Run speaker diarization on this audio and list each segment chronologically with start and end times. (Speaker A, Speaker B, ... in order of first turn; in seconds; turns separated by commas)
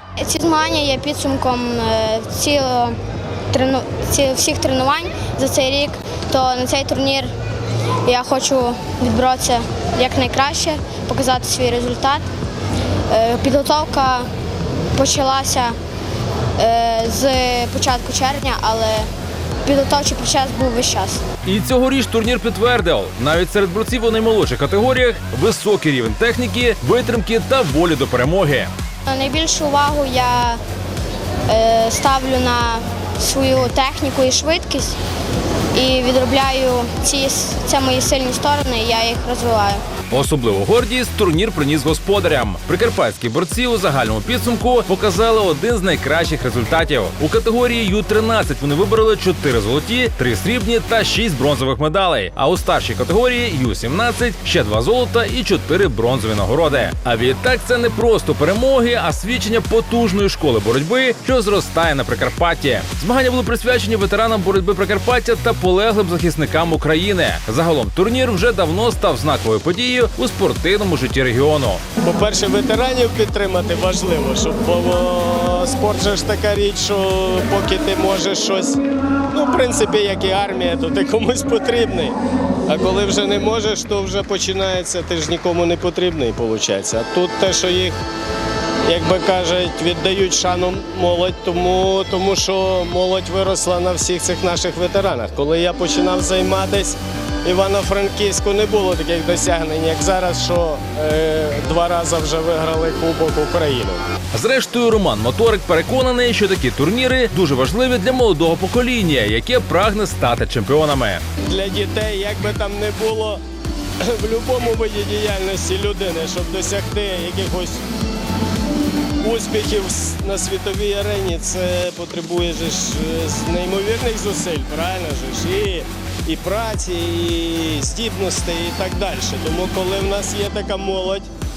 Speaker A: 0.2-3.0, Speaker A: 3.5-7.3, Speaker A: 8.0-12.2, Speaker A: 13.1-14.3, Speaker A: 14.9-15.8, Speaker A: 16.6-19.1, Speaker A: 19.6-21.2, Speaker B: 21.4-28.7, Speaker A: 29.1-30.6, Speaker A: 31.5-35.0, Speaker A: 35.7-39.8, Speaker B: 40.1-71.8, Speaker C: 72.0-78.8, Speaker C: 79.3-82.1, Speaker C: 82.7-88.0, Speaker C: 88.8-104.0, Speaker B: 104.3-111.2, Speaker C: 111.4-113.4, Speaker C: 114.0-117.8, Speaker C: 119.2-131.3